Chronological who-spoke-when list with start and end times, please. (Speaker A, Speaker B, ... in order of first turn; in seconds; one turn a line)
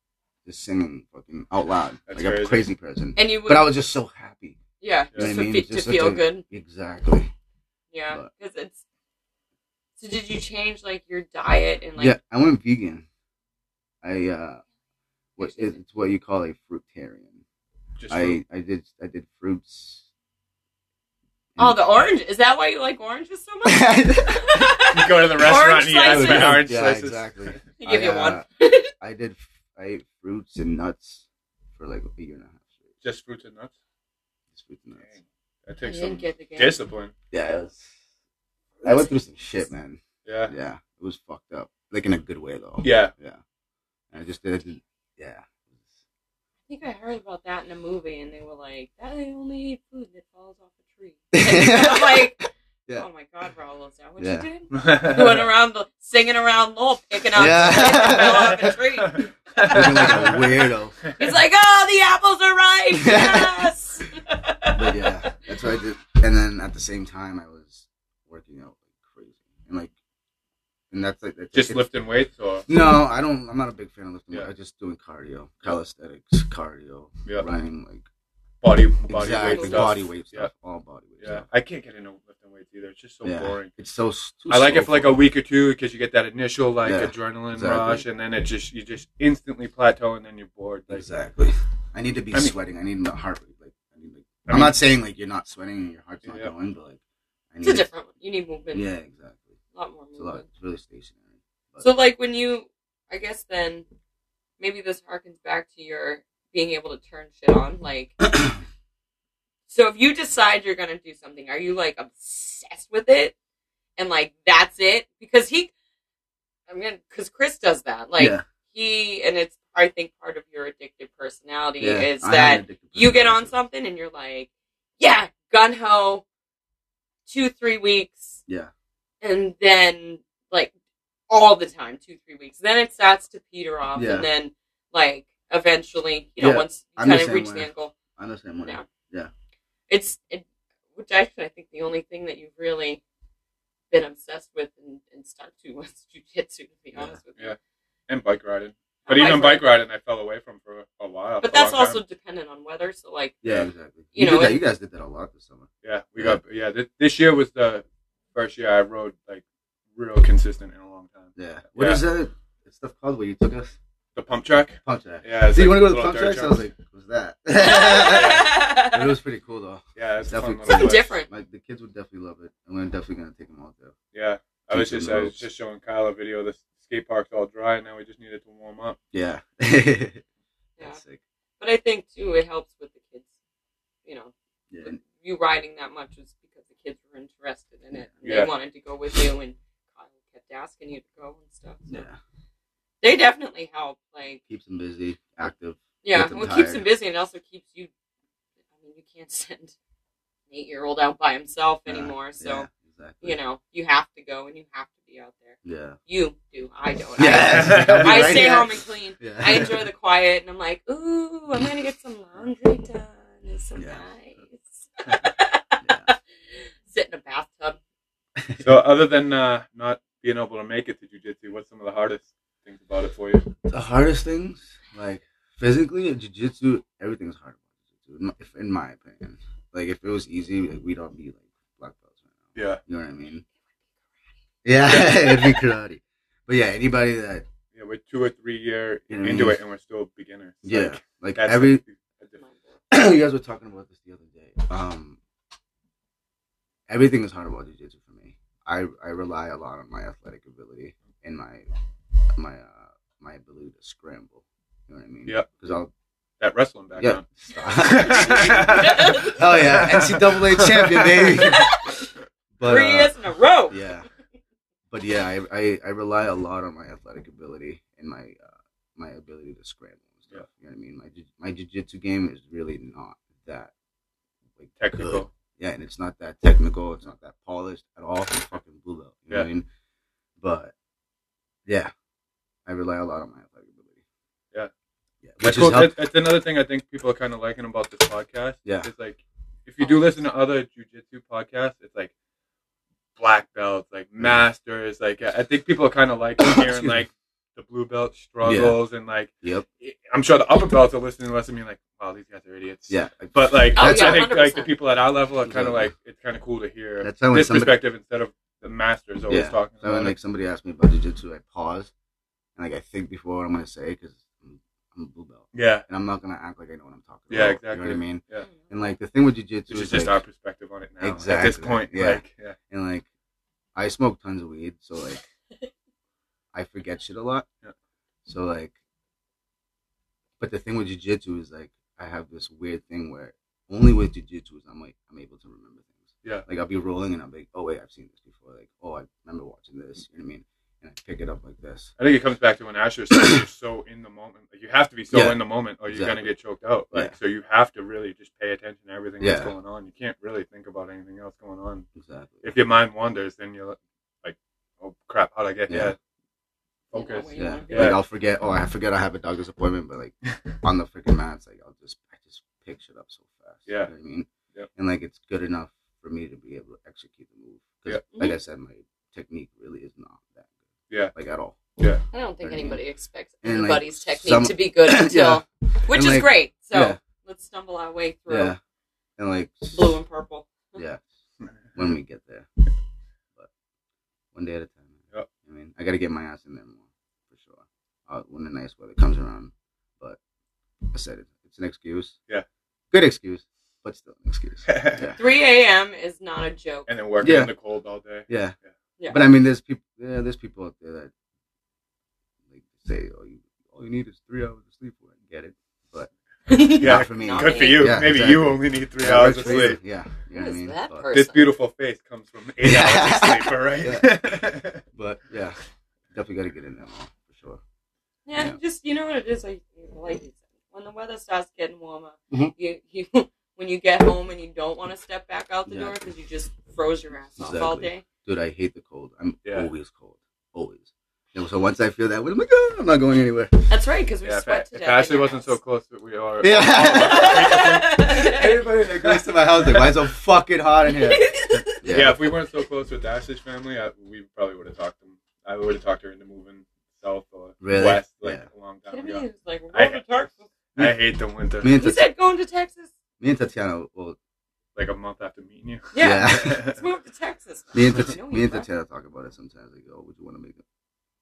Speaker A: 0.4-4.6
Speaker B: 2.1-2.6
Speaker C: 3.1-3.7
Speaker C: 4.8-6.4
Speaker A: 5.1-7.3
Speaker C: 7.9-8.8
Speaker C: 10.0-12.2
Speaker A: 12.0-13.0
Speaker A: 14.0-14.6
Speaker A: 15.4-17.4
Speaker C: 15.4-15.8
Speaker B: 18.0-18.4
Speaker A: 18.1-20.1
Speaker A: 21.6-21.8
Speaker C: 21.6-26.6
Speaker A: 23.6-24.8
Speaker B: 24.9-27.6
Speaker A: 26.0-31.2
Speaker C: 27.8-28.9
Speaker A: 31.8-32.9
Speaker B: 33.0-33.7
Speaker A: 34.5-35.1
Speaker B: 35.0-37.1
Speaker C: 35.8-36.8
Speaker A: 37.3-38.0
Speaker C: 38.8-39.1
Speaker A: 38.8-43.4
Speaker B: 40.2-40.5
Speaker B: 42.8-43.1
Speaker A: 44.1-46.0
Speaker C: 46.7-60.4
Speaker A: 51.3-53.1
Speaker A: 54.2-54.5
Speaker B: 54.7-55.5
Speaker A: 57.3-58.8
Speaker B: 58.0-58.3
Speaker B: 59.0-60.5
Speaker A: 59.7-61.0
Speaker C: 61.1-65.4
Speaker A: 63.0-63.7
Speaker A: 64.7-69.9
Speaker A: 70.9-71.8
Speaker B: 71.5-72.7
Speaker A: 72.7-78.0
Speaker B: 78.6-80.5
Speaker A: 79.1-81.4
Speaker C: 79.4-79.9
Speaker B: 81.2-83.7
Speaker A: 83.2-85.2
Speaker B: 84.5-91.1
Speaker A: 86.8-88.0
Speaker A: 90.9-97.0
Speaker B: 94.5-94.8
Speaker B: 96.2-96.5
Speaker A: 97.5-97.9
Speaker C: 97.6-98.9
Speaker A: 98.7-99.5
Speaker C: 99.7-100.5
Speaker A: 100.1-101.9
Speaker C: 101.8-103.8
Speaker C: 104.6-108.2
Speaker C: 109.7-113.3
Speaker C: 114.0-115.7
Speaker C: 116.7-126.2
Speaker A: 118.2-118.4
Speaker A: 121.8-123.5
Speaker C: 127.3-128.4
Speaker C: 129.2-130.7
Speaker C: 131.3-137.9
Speaker A: 133.9-134.3
Speaker A: 136.4-139.3
Speaker C: 139.9-143.0
Speaker C: 143.9-147.5
Speaker B: 148.1-152.0
Speaker C: 149.1-149.7
Speaker C: 151.4-153.4
Speaker A: 153.4-155.7
Speaker C: 154.1-154.6
Speaker B: 155.8-159.4
Speaker B: 159.9-162.0
Speaker A: 161.4-163.8
Speaker B: 164.1-166.6
Speaker A: 164.8-173.9
Speaker C: 167.5-169.1
Speaker B: 168.1-168.6
Speaker B: 169.9-171.1
Speaker C: 170.7-171.3
Speaker B: 174.1-179.0
Speaker A: 174.7-175.4
Speaker A: 179.1-180.2
Speaker A: 180.8-181.2
Speaker C: 181.6-183.3
Speaker C: 184.0-192.1
Speaker A: 184.7-185.0
Speaker B: 188.2-188.5
Speaker A: 191.9-192.2
Speaker C: 193.0-194.4
Speaker A: 194.5-196.8
Speaker C: 196.0-197.9
Speaker C: 198.8-199.7
Speaker C: 200.5-202.7
Speaker A: 201.9-203.4
Speaker C: 203.2-217.8
Speaker A: 205.6-206.0
Speaker A: 207.2-209.9
Speaker B: 207.3-208.5
Speaker A: 213.8-214.0
Speaker A: 215.8-216.1
Speaker A: 218.4-218.7
Speaker B: 218.6-223.5
Speaker A: 223.6-233.4
Speaker B: 232.5-232.8
Speaker A: 234.6-237.4
Speaker C: 234.9-235.5
Speaker B: 237.7-242.4
Speaker A: 239.1-239.6
Speaker A: 240.6-241.8
Speaker C: 242.4-242.8
Speaker A: 242.9-245.2
Speaker A: 246.9-251.7
Speaker A: 252.3-255.9
Speaker B: 256.4-257.2
Speaker A: 257.0-261.7
Speaker B: 257.8-261.6
Speaker C: 258.0-259.5
Speaker C: 261.4-262.1
Speaker A: 262.6-263.1
Speaker C: 262.6-263.9
Speaker A: 263.7-264.1
Speaker A: 264.9-273.7
Speaker A: 274.6-279.6
Speaker B: 274.8-275.3
Speaker A: 280.4-280.7
Speaker A: 281.6-281.9
Speaker A: 282.6-284.0
Speaker A: 285.2-285.9
Speaker B: 285.4-292.1
Speaker B: 293.2-310.1
Speaker A: 296.4-297.0
Speaker A: 298.4-298.8
Speaker A: 302.9-304.3
Speaker C: 303.8-304.7
Speaker A: 305.4-305.9
Speaker A: 307.0-307.8
Speaker A: 309.3-311.9
Speaker A: 312.6-320.2
Speaker B: 315.5-315.9
Speaker B: 317.3-318.5
Speaker C: 318.4-318.7
Speaker B: 319.7-322.6
Speaker A: 321.0-323.1
Speaker A: 323.7-325.2
Speaker A: 326.5-327.4
Speaker A: 328.2-328.7
Speaker A: 330.4-341.9
Speaker B: 342.0-351.9
Speaker A: 343.2-343.4
Speaker A: 345.1-346.2
Speaker A: 349.2-349.5
Speaker A: 351.9-352.5
Speaker B: 352.4-356.0
Speaker A: 355.7-355.9
Speaker B: 356.9-358.0
Speaker C: 356.9-358.0
Speaker A: 357.4-370.5
Speaker A: 371.1-371.6
Speaker B: 371.8-372.0
Speaker C: 372.1-378.6
Speaker A: 372.4-372.8
Speaker A: 373.4-377.0
Speaker A: 378.3-378.6
Speaker A: 379.2-380.0
Speaker C: 379.7-380.8
Speaker A: 380.8-381.1
Speaker A: 381.7-382.5
Speaker A: 384.3-390.2
Speaker A: 390.9-392.1
Speaker A: 392.9-395.2
Speaker B: 394.7-395.1
Speaker C: 395.2-396.9
Speaker B: 396.9-398.3
Speaker A: 397.2-397.5
Speaker A: 398.3-398.5
Speaker C: 399.0-399.2
Speaker A: 399.1-401.1
Speaker A: 402.5-406.1
Speaker C: 406.5-408.0
Speaker B: 406.8-409.8
Speaker A: 406.8-411.1
Speaker C: 409.4-409.7
Speaker C: 410.3-411.5
Speaker B: 411.1-414.8
Speaker A: 412.6-414.3
Speaker A: 414.9-415.6
Speaker A: 416.1-417.6
Speaker C: 418.2-428.0
Speaker A: 425.7-426.1
Speaker A: 427.4-433.7
Speaker B: 429.4-429.7
Speaker C: 433.7-435.6
Speaker B: 434.2-439.9
Speaker A: 436.4-442.4
Speaker C: 436.9-438.5
Speaker C: 440.9-441.8
Speaker B: 441.9-450.1
Speaker A: 447.6-448.4
Speaker C: 448.9-450.5
Speaker B: 450.7-451.7
Speaker A: 451.6-452.0
Speaker C: 451.7-452.9
Speaker A: 453.2-454.2
Speaker B: 454.8-456.8
Speaker C: 455.9-458.7
Speaker A: 456.0-456.6
Speaker A: 457.7-460.6